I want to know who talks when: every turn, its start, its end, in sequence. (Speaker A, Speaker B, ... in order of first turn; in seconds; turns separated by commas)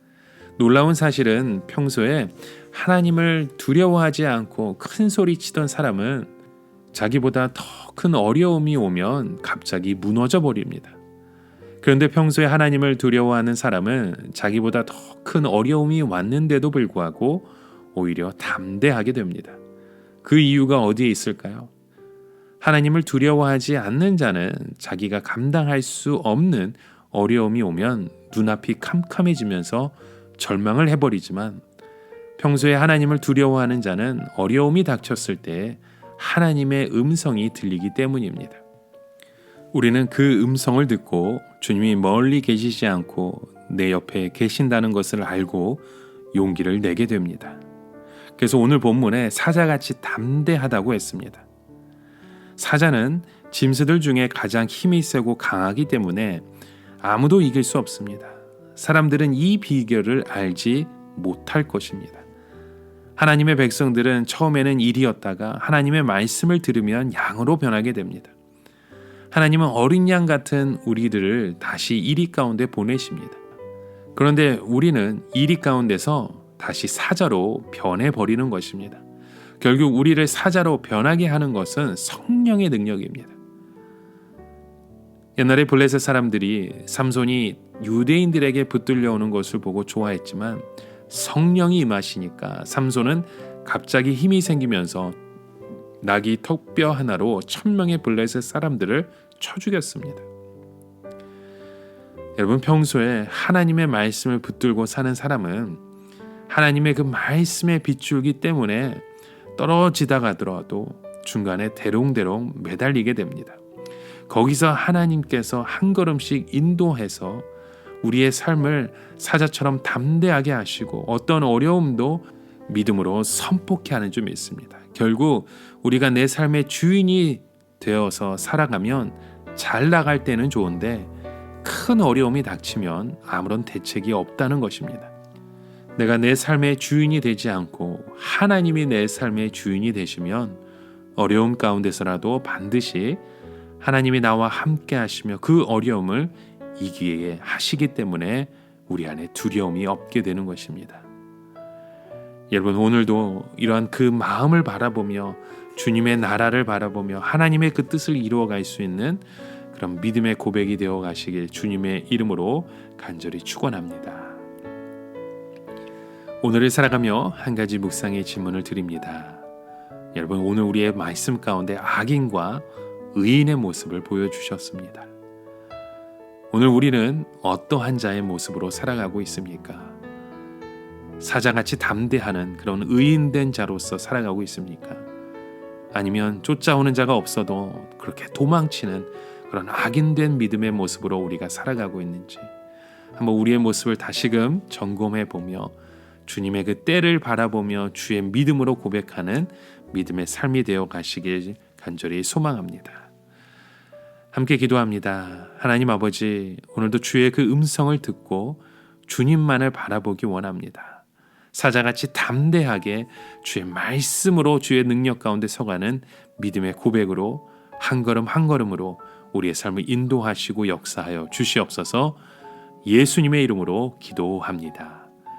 Speaker A: 0.6-6.3, Speaker A: 6.9-11.0, Speaker A: 11.8-19.6, Speaker A: 20.2-21.7, Speaker A: 22.6-31.6, Speaker A: 32.4-38.6, Speaker A: 39.7-47.6, Speaker A: 48.4-51.5, Speaker A: 52.6-56.5, Speaker A: 57.0-62.2, Speaker A: 63.2-68.3, Speaker A: 69.3-73.4, Speaker A: 74.2-79.0, Speaker A: 79.6-83.3, Speaker A: 85.4-95.2, Speaker A: 96.0-100.2, Speaker A: 102.4-105.8, Speaker A: 106.5-113.6, Speaker A: 114.3-117.5, Speaker A: 118.0-131.1, Speaker A: 131.6-135.1, Speaker A: 136.0-140.6, Speaker A: 141.2-143.2, Speaker A: 143.8-151.1, Speaker A: 152.5-164.4, Speaker A: 166.4-169.4, Speaker A: 170.1-175.1, Speaker A: 176.5-180.0, Speaker A: 181.2-185.1, Speaker A: 185.9-192.5, Speaker A: 193.2-195.8, Speaker A: 196.3-203.1, Speaker A: 204.3-222.2, Speaker A: 222.8-225.1